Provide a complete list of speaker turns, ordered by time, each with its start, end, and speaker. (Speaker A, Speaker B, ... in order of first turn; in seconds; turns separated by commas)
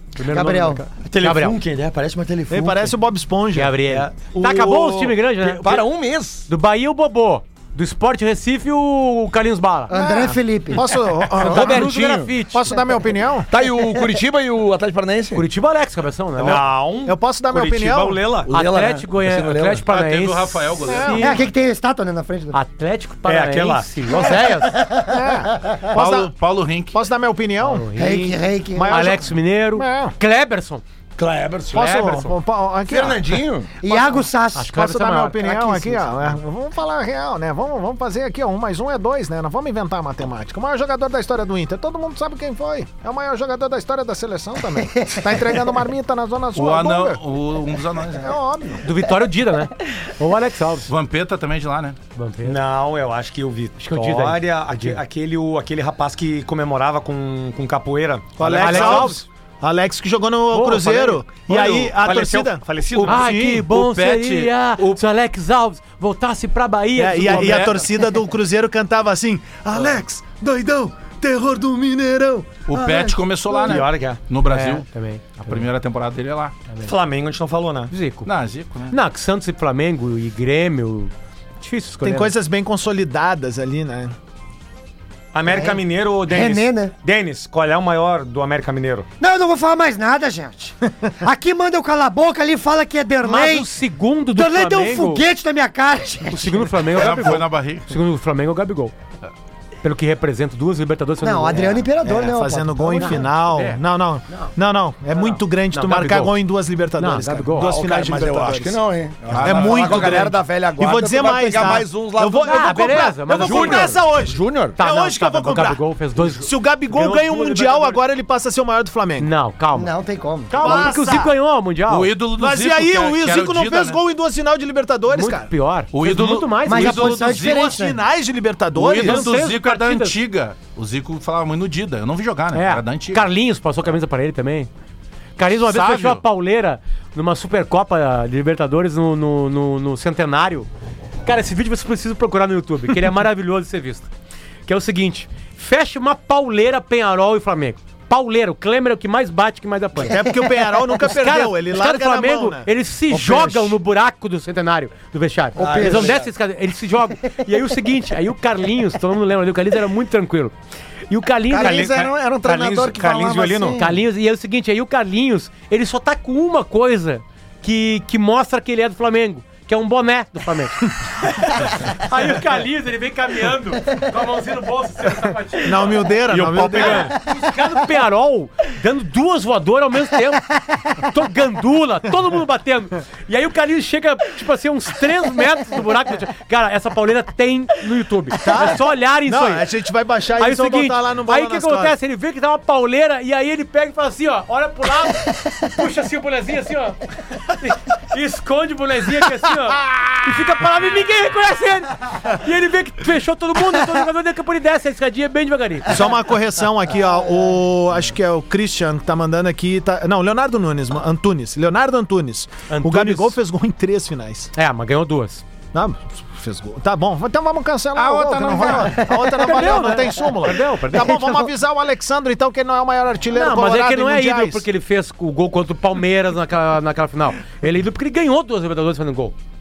Speaker A: 0.2-1.6, Speaker B: 0.3-0.8, Speaker C: 1.0-3.0, Speaker D: 2.5-3.8, Speaker A: 3.5-5.9, Speaker C: 3.8-5.5, Speaker E: 5.6-6.5, Speaker A: 6.5-9.9, Speaker B: 9.9-10.8, Speaker D: 9.9-13.5, Speaker A: 11.3-12.7, Speaker E: 11.4-12.3, Speaker E: 13.5-15.4, Speaker A: 15.3-16.6, Speaker C: 16.4-18.5, Speaker D: 17.1-18.3, Speaker E: 18.4-19.9, Speaker A: 18.5-21.4, Speaker F: 19.9-21.4, Speaker D: 20.9-21.4, Speaker B: 21.2-22.6, Speaker A: 22.5-24.8, Speaker C: 23.3-24.1, Speaker D: 24.1-26.3, Speaker B: 24.3-25.8, Speaker F: 25.9-27.0, Speaker D: 26.9-30.1, Speaker A: 27.6-28.4, Speaker B: 28.0-28.9, Speaker A: 28.9-30.8, Speaker E: 31.2-32.0, Speaker D: 31.7-33.3, Speaker A: 31.7-32.3, Speaker E: 32.9-33.7, Speaker B: 33.8-34.7, Speaker D: 33.9-47.2, Speaker A: 34.5-35.8, Speaker B: 45.0-45.4, Speaker F: 46.5-48.3, Speaker D: 48.2-48.9, Speaker A: 48.8-50.9, Speaker F: 50.9-52.0, Speaker A: 52.1-52.6, Speaker C: 52.5-59.1, Speaker A: 53.8-55.0, Speaker D: 58.4-63.6, Speaker A: 58.5-59.2, Speaker A: 60.5-61.2, Speaker C: 61.5-63.3, Speaker F: 63.0-65.0, Speaker A: 63.1-67.8, Speaker D: 67.0-73.8, Speaker F: 67.3-67.6, Speaker F: 72.7-74.9, Speaker C: 73.6-74.6, Speaker A: 74.5-75.7, Speaker F: 75.4-76.6, Speaker C: 76.8-77.9, Speaker A: 77.9-78.3, Speaker F: 78.2-79.0, Speaker A: 78.9-82.3, Speaker D: 82.0-84.1, Speaker C: 85.3-89.1, Speaker B: 85.5-86.9, Speaker B: 89.2-93.7, Speaker A: 93.2-95.2, Speaker B: 94.3-96.7, Speaker A: 96.3-98.9, Speaker F: 97.0-97.9, Speaker A: 99.8-101.9, Speaker B: 101.2-103.2, Speaker D: 102.0-108.8, Speaker A: 103.0-103.8, Speaker A: 105.2-106.4, Speaker A: 107.0-107.7, Speaker E: 107.6-114.8, Speaker F: 109.3-110.3, Speaker D: 109.4-115.8, Speaker A: 112.4-114.0, Speaker A: 114.8-118.0, Speaker D: 116.3-119.3, Speaker A: 119.2-119.9, Speaker B: 119.8-120.9, Speaker A: 120.5-122.1, Speaker D: 120.5-121.3, Speaker F: 121.9-124.0, Speaker D: 122.4-125.5, Speaker A: 125.1-127.2, Speaker F: 125.9-127.7, Speaker B: 126.7-128.0, Speaker D: 126.8-129.3, Speaker F: 128.8-133.3, Speaker A: 129.0-130.2, Speaker A: 132.5-134.7, Speaker A: 135.4-140.7, Speaker F: 135.7-136.2, Speaker A: 141.2-144.1, Speaker A: 144.7-150.2, Speaker D: 150.0-152.7, Speaker A: 151.0-160.5, Speaker C: 153.1-153.7, Speaker B: 155.6-156.2, Speaker C: 155.6-156.3, Speaker A: 161.1-162.1, Speaker E: 161.5-163.8, Speaker C: 161.6-163.9, Speaker A: 163.8-189.7, Speaker D: 175.7-177.1, Speaker C: 176.3-177.2, Speaker D: 188.4-191.9, Speaker A: 190.4-206.1, Speaker D: 205.9-214.5, Speaker A: 212.7-213.4, Speaker A: 214.6-215.4, Speaker D: 215.7-224.7, Speaker F: 217.9-219.1, Speaker A: 219.4-221.4, Speaker A: 223.3-229.3